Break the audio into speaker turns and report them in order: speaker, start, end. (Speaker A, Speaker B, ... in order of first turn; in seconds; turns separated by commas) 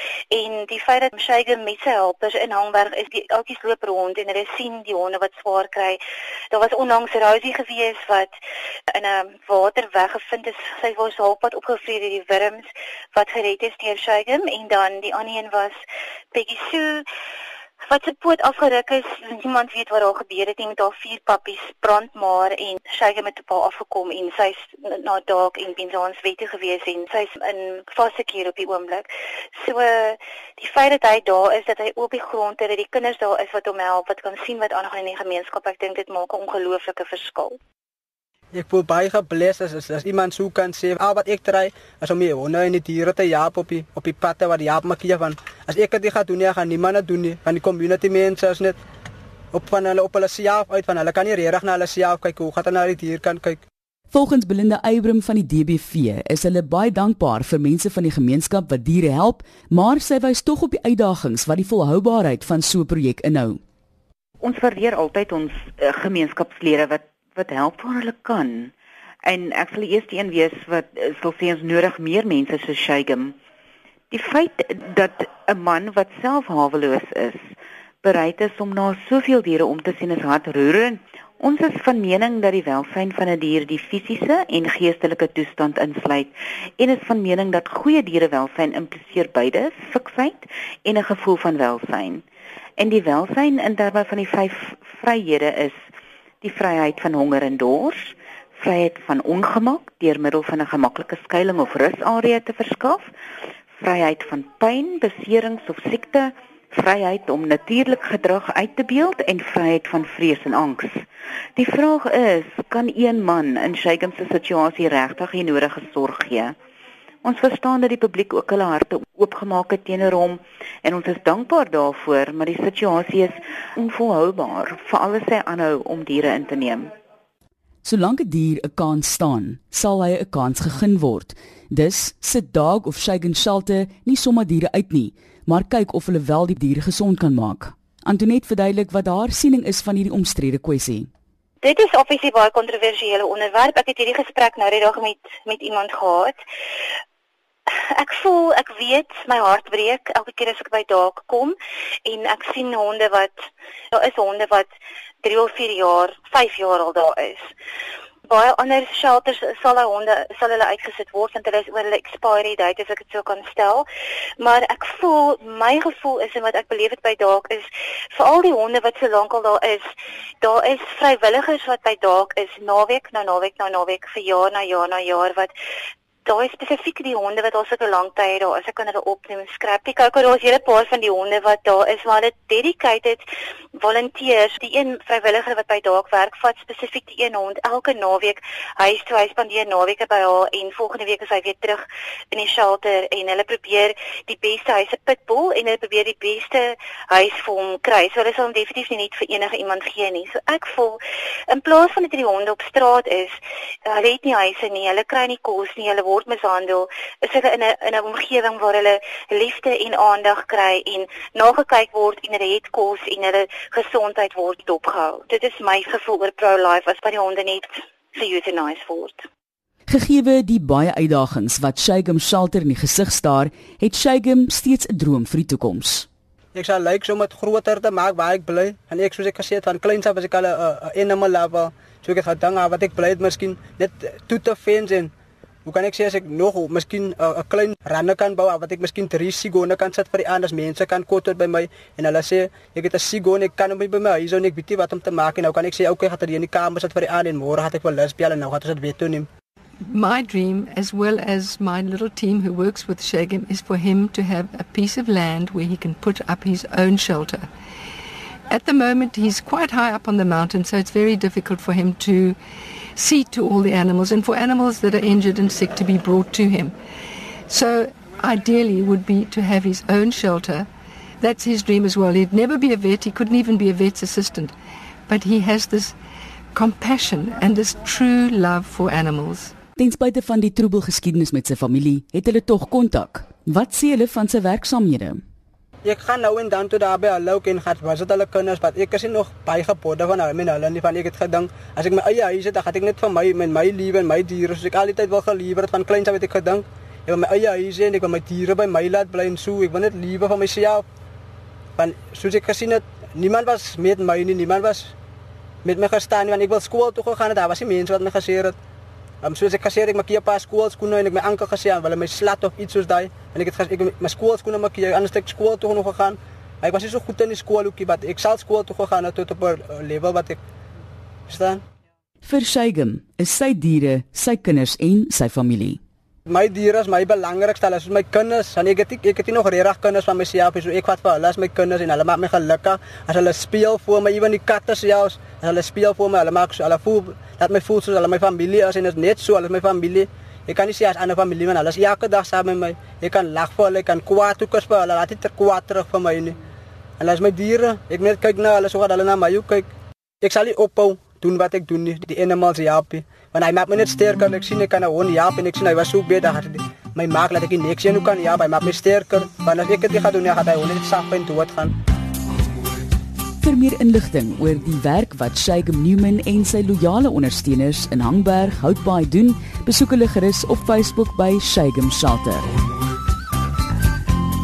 Speaker A: 0.3-6.0, Speaker A: 6.5-8.4, Speaker A: 8.9-15.8, Speaker A: 16.3-17.1, Speaker A: 17.8-37.6, Speaker B: 38.5-48.8, Speaker B: 49.5-53.6, Speaker C: 54.1-63.6, Speaker D: 64.4-68.7, Speaker D: 69.2-73.4, Speaker D: 74.1-77.4, Speaker D: 78.0-92.2, Speaker D: 92.8-95.8, Speaker D: 96.4-103.1, Speaker D: 103.8-111.0, Speaker D: 111.6-116.6, Speaker D: 117.2-126.9, Speaker C: 127.8-141.1, Speaker A: 141.6-146.4, Speaker A: 147.8-154.7, Speaker A: 155.2-157.5, Speaker A: 158.3-163.9, Speaker A: 164.4-169.9, Speaker A: 170.4-175.5, Speaker A: 176.2-183.2, Speaker A: 183.8-219.2, Speaker C: 219.9-226.1, Speaker B: 226.6-235.1, Speaker B: 235.7-249.3, Speaker E: 249.8-257.5, Speaker E: 258.5-262.4, Speaker E: 262.9-266.7, Speaker E: 267.5-270.7, Speaker E: 271.2-274.5, Speaker E: 275.1-275.9, Speaker E: 276.5-279.5, Speaker C: 279.8-285.2, Speaker B: 285.8-300.9, Speaker B: 301.8-304.9, Speaker B: 305.6-308.6, Speaker B: 309.2-320.4, Speaker B: 321.3-321.6, Speaker C: 322.2-325.8, Speaker B: 326.3-346.4, Speaker B: 347.0-349.7, Speaker B: 350.2-361.8, Speaker C: 363.4-372.5